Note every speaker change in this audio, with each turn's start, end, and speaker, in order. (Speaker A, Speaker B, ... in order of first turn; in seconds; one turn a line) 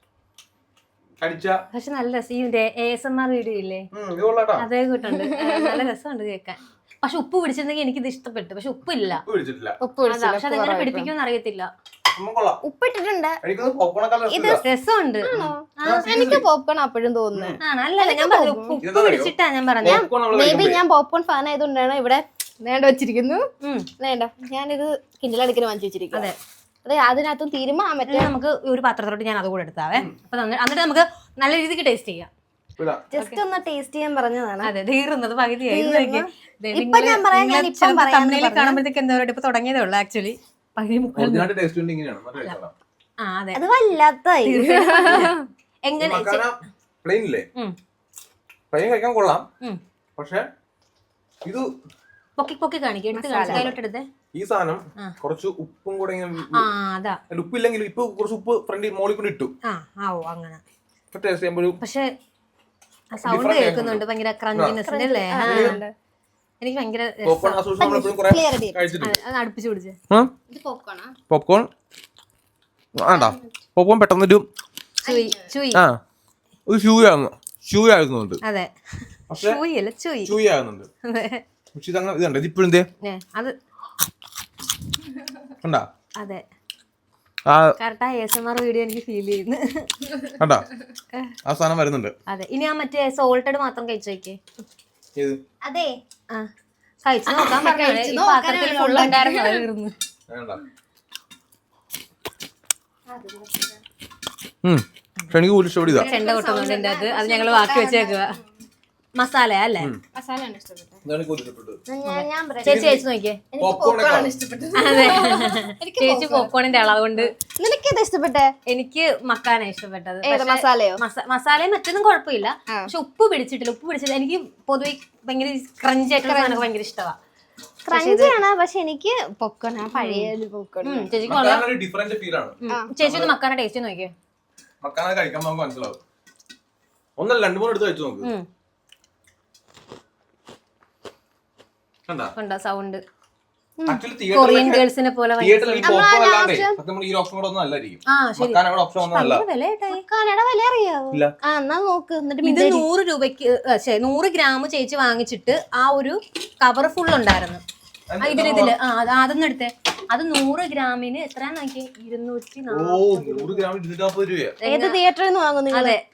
Speaker A: 1.2-1.6
Speaker B: 1.7-3.9
Speaker A: 3.9-4.7
Speaker B: 4.6-9.2
Speaker C: 5.1-5.8
Speaker A: 9.2-9.8
Speaker C: 9.8-11.1
Speaker B: 10.1-11.7
Speaker A: 12.1-12.6
Speaker C: 12.6-13.4
Speaker A: 13.4-14.6
Speaker C: 14.3-14.6
Speaker B: 14.6-16.4
Speaker C: 15.2-18.8
Speaker A: 15.3-16.4
Speaker B: 17.6-20.0
Speaker A: 18.8-20.8
Speaker C: 19.8-23.4
Speaker B: 23.6-23.9
Speaker C: 24.0-26.3
Speaker C: 26.8-28.3
Speaker B: 28.1-32.3
Speaker A: 32.8-33.1
Speaker C: 33.1-34.7
Speaker B: 34.6-41.5
Speaker C: 35.7-38.8
Speaker A: 41.1-42.7
Speaker B: 43.2-43.6
Speaker C: 43.5-45.5
Speaker B: 44.4-45.3
Speaker B: 45.9-46.4
Speaker A: 46.0-47.5
Speaker A: 48.7-49.4
Speaker A: 50.2-50.5
Speaker B: 52.4-54.1
Speaker C: 53.1-53.7
Speaker A: 54.3-56.7
Speaker B: 56.5-57.2
Speaker A: 57.3-59.5
Speaker B: 59.6-60.6
Speaker A: 61.1-61.8
Speaker B: 61.8-62.1
Speaker B: 63.1-65.8
Speaker A: 63.2-64.0
Speaker A: 64.5-64.8
Speaker C: 64.8-65.9
Speaker A: 65.4-65.8
Speaker B: 66.6-67.6
Speaker A: 67.2-69.2
Speaker C: 67.8-69.0
Speaker B: 69.0-70.0
Speaker C: 70.5-71.1
Speaker A: 71.3-71.7
Speaker A: 73.0-74.5
Speaker C: 73.1-73.4
Speaker C: 75.0-75.5
Speaker B: 75.0-75.8
Speaker A: 76.7-78.4
Speaker B: 78.4-80.3
Speaker A: 79.3-79.6
Speaker A: 80.2-80.9
Speaker B: 81.1-81.4
Speaker A: 81.7-82.9
Speaker B: 83.0-83.5
Speaker A: 85.6-85.9
Speaker A: 87.5-87.7
Speaker B: 87.8-89.9
Speaker A: 90.4-90.6
Speaker A: 91.4-92.1
Speaker B: 92.3-94.4
Speaker C: 95.6-96.0
Speaker B: 97.0-99.9
Speaker C: 97.3-99.6
Speaker A: 100.3-100.6
Speaker C: 103.1-103.8
Speaker A: 104.6-106.1
Speaker B: 105.9-108.4
Speaker C: 105.9-108.4
Speaker B: 109.2-109.9
Speaker C: 110.1-111.0
Speaker A: 111.0-111.8
Speaker C: 111.9-118.5
Speaker B: 112.0-113.4
Speaker A: 112.6-113.0
Speaker A: 113.6-114.3
Speaker B: 114.7-117.3
Speaker B: 118.7-127.2
Speaker C: 120.2-121.0
Speaker C: 126.2-126.7
Speaker C: 127.8-131.2
Speaker B: 127.9-128.4
Speaker B: 129.9-130.3
Speaker B: 130.8-131.7
Speaker A: 131.3-133.3
Speaker B: 132.7-134.1
Speaker A: 134.8-136.0
Speaker A: 137.2-138.3
Speaker A: 142.1-142.3
Speaker B: 142.3-143.0
Speaker A: 143.8-144.9
Speaker B: 144.3-146.1
Speaker A: 145.4-149.4
Speaker C: 145.8-146.8
Speaker B: 148.1-150.0
Speaker C: 149.9-152.8
Speaker B: 152.4-157.6
Speaker A: 158.1-158.8
Speaker B: 158.2-163.7
Speaker A: 162.7-164.6
Speaker B: 164.6-165.0
Speaker C: 164.6-166.0
Speaker B: 165.7-166.0